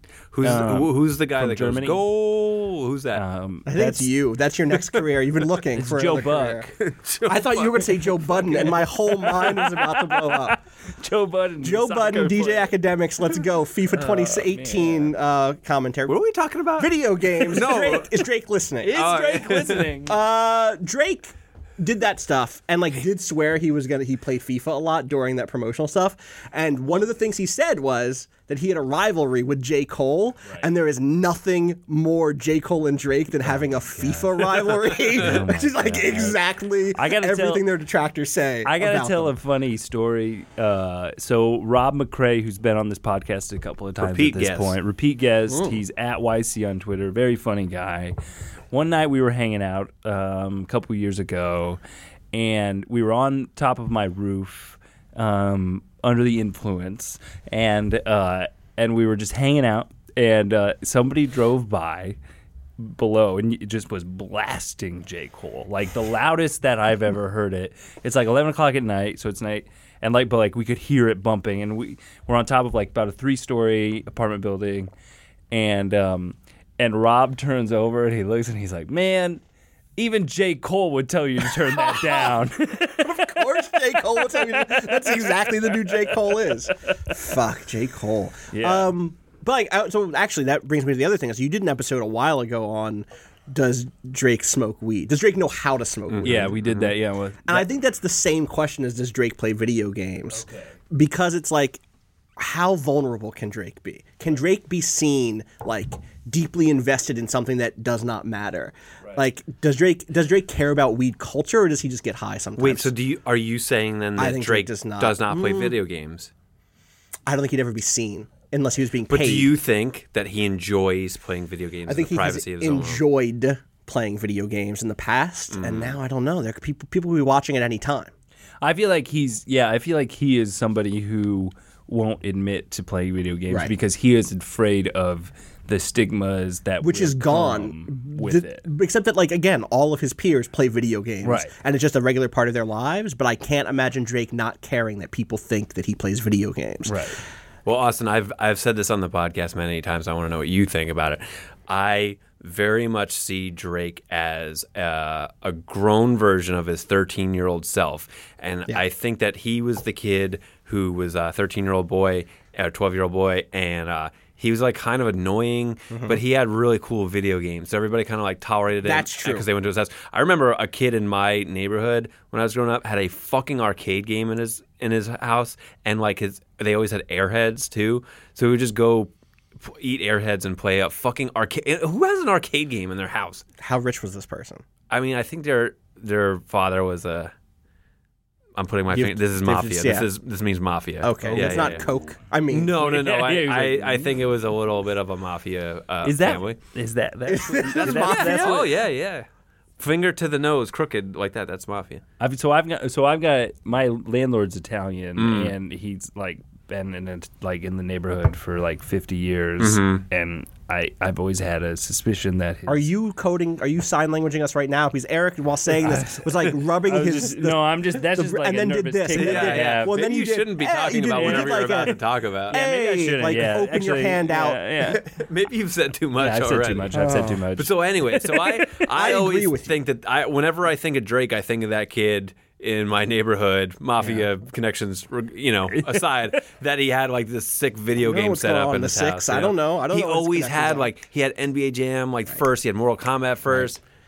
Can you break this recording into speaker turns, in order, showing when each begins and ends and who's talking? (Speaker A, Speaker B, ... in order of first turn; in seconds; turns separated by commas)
Speaker A: 0.3-3.2, Speaker B: 0.4-2.0, Speaker B: 3.1-4.1, Speaker C: 3.7-6.7, Speaker B: 5.7-7.0, Speaker A: 7.0-8.8, Speaker C: 7.2-10.6, Speaker B: 9.2-12.7, Speaker C: 11.6-16.1, Speaker B: 13.9-15.1, Speaker A: 16.1-18.2, Speaker C: 16.8-19.0, Speaker B: 18.8-20.1, Speaker A: 18.9-19.9, Speaker C: 20.1-39.3, Speaker B: 33.4-36.4, Speaker B: 36.9-37.6, Speaker B: 38.6-48.1, Speaker A: 44.0-44.7, Speaker C: 45.5-45.8, Speaker B: 48.7-51.8, Speaker B: 52.3-62.2, Speaker B: 62.8-74.9, Speaker B: 75.5-79.4, Speaker B: 80.0-86.4, Speaker C: 81.7-82.3, Speaker C: 83.0-96.5, Speaker B: 88.5-88.9, Speaker A: 96.1-96.9, Speaker B: 96.2-97.7, Speaker C: 97.5-101.8, Speaker B: 100.3-100.7, Speaker C: 102.4-112.9, Speaker A: 112.6-116.3, Speaker C: 114.2-115.7, Speaker C: 117.3-119.5, Speaker A: 119.1-123.0, Speaker C: 121.9-128.1, Speaker A: 125.5-126.0, Speaker B: 128.6-138.7, Speaker C: 133.5-133.7, Speaker C: 136.8-147.0, Speaker B: 141.2-141.5, Speaker B: 146.8-147.2, Speaker A: 147.6-183.4, Speaker C: 165.9-166.2, Speaker C: 168.8-169.4, Speaker C: 183.6-184.6, Speaker A: 184.9-187.3, Speaker A: 188.6-191.9, Speaker C: 188.9-190.1, Speaker C: 191.0-192.7, Speaker B: 191.3-191.6, Speaker A: 192.5-196.6, Speaker B: 192.8-194.1, Speaker B: 196.0-198.6, Speaker C: 197.3-198.7, Speaker A: 197.7-199.3, Speaker A: 199.8-202.0, Speaker B: 202.2-212.8, Speaker A: 205.2-205.5, Speaker A: 209.6-210.0, Speaker C: 212.7-221.9, Speaker B: 215.8-216.3, Speaker B: 216.8-219.9, Speaker A: 219.1-222.6, Speaker B: 221.1-222.0, Speaker C: 222.5-225.0, Speaker B: 222.5-225.0, Speaker A: 225.2-243.8, Speaker B: 226.2-228.8, Speaker C: 226.9-227.4, Speaker C: 228.9-229.7, Speaker B: 234.0-234.3, Speaker B: 235.7-236.4, Speaker C: 238.0-240.9